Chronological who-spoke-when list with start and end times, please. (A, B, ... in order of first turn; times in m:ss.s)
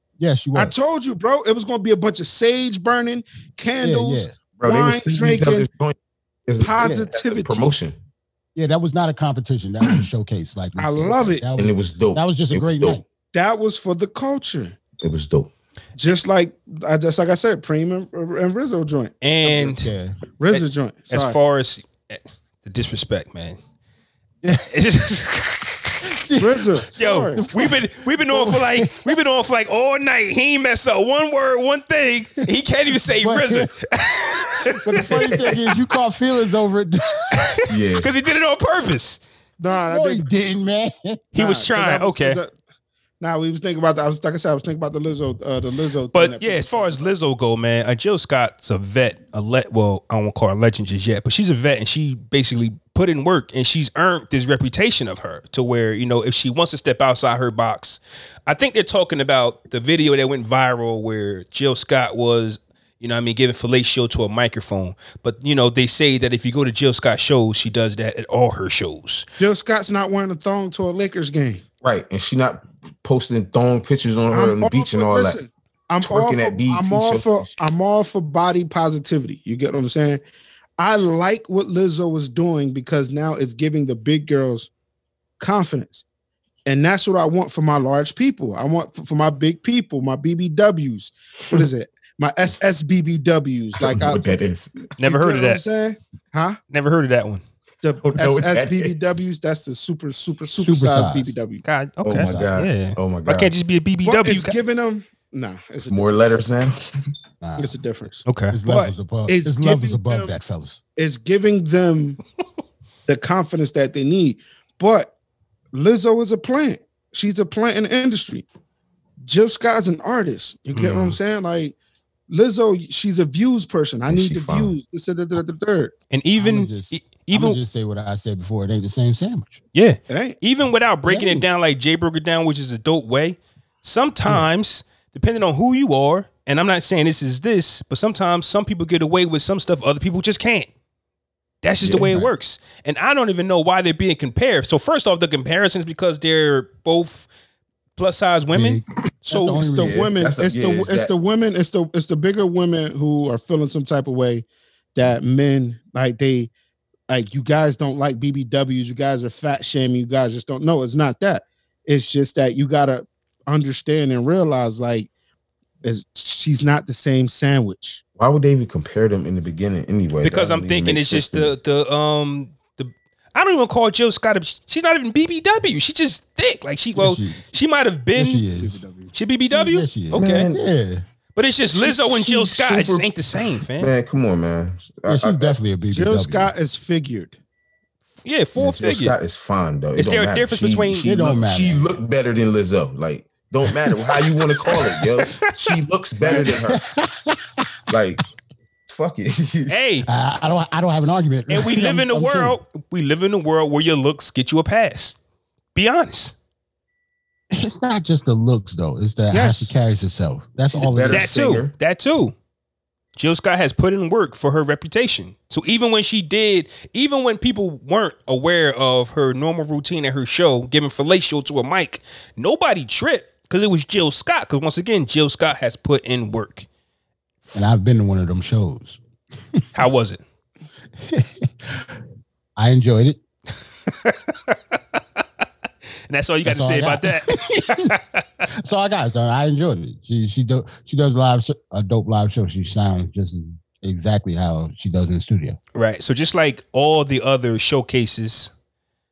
0:00.2-0:00.7 A
0:00.5-0:05.7 B
0:03.8-0:04.3 A
0:04.6-0:06.0 C
0:06.5-0:08.0 C
0:06.6-0:07.7 B
0:08.5-0:13.0 A
0:10.8-0:11.4 B
0:11.6-0:13.0 C
0:13.3-0:14.8 B
0:15.0-0:15.5 C
0:16.0-0:19.8 B
0:19.2-0:19.9 D
0:19.8-0:20.2 A
0:20.4-0:21.4 B
0:20.5-0:23.6 D
0:24.4-0:24.8 A
0:24.7-0:26.1 D
0:26.0-0:29.2 A
0:26.4-0:27.4 B
0:27.0-0:35.7 D
0:33.1-0:33.7 A
0:34.6-0:37.5 A
0:37.3-0:39.2 D
0:37.7-0:38.1 C
0:39.6-0:40.3 B
0:39.7-0:41.2 A
0:41.3-0:42.5 B
0:41.3-0:42.4 D
0:43.2-0:47.1 B
0:46.1-1:09.2 D
1:09.4-1:11.6 B
1:11.8-1:15.4 C
1:14.3-1:20.2 B
1:16.0-1:17.5 C
1:20.8-1:24.7 B
1:25.4-1:26.0 B
1:26.6-1:34.2 B
1:33.8-1:34.9 C
1:35.0-1:35.6 D
1:35.0-1:36.6 B
1:36.7-1:37.4 D
1:37.8-1:41.6 B
1:38.0-1:38.9 C
1:40.6-1:41.3 A
1:41.6-1:44.6 D
1:42.0-1:43.5 C
1:42.2-1:42.5 A
1:44.0-1:46.4 B
1:45.9-1:47.0 C
1:47.4-1:47.8 A
1:47.6-1:50.3 B
1:48.2-1:48.6 D
1:48.5-1:50.8 A
1:51.0-1:52.2 B
1:53.1-1:55.1 B
1:55.7-1:58.4 B
1:59.2-2:01.8 B
2:00.7-2:01.2 D
2:02.3-2:05.9 B
2:04.1-2:04.7 C
2:06.1-2:07.6 D
2:06.4-2:09.6 A
2:09.7-2:20.7 D
2:10.1-2:10.4 B
2:11.0-2:11.4 A
2:21.6-2:27.3 D
2:21.8-2:22.1 C
2:21.9-2:22.3 A
2:28.0-2:28.8 D
2:28.5-2:30.1 A
2:29.3-2:36.5 B
2:29.8-2:31.1 C
2:37.1-2:45.1 B
2:45.8-2:48.0 B
2:48.2-2:51.5 C
2:50.2-2:58.4 D
2:56.9-2:57.4 A
2:58.1-2:58.8 A
2:58.6-2:59.1 B
2:59.1-3:00.5 D
2:59.5-3:01.0 A
3:00.1-3:00.6 C
3:01.3-3:03.9 D
3:01.8-3:03.1 C
3:03.8-3:05.6 C
3:05.1-3:06.5 A
3:05.9-3:07.3 B
3:08.2-3:09.2 D
3:08.6-3:16.8 C
3:09.9-3:11.1 D
3:11.0-3:11.9 A
3:16.2-3:16.5 B
3:16.3-3:17.6 A
3:17.9-3:18.2 C
3:18.9-3:19.8 C
3:19.7-3:20.1 D
3:20.1-3:22.6 A
3:21.5-3:25.2 D
3:25.7-3:26.3 D
3:27.5-3:31.4 A
3:29.3-3:29.7 B
3:30.7-3:31.7 C
3:31.1-3:32.3 D
3:33.2-3:46.6 D
3:47.5-3:49.0 A
3:49.7-3:50.2 D
3:51.0-3:51.9 A
3:52.6-3:53.2 A
3:53.8-3:55.0 D
3:56.1-3:58.4 D
3:56.4-3:57.9 A
3:58.5-4:05.6 A
4:05.7-4:08.5 D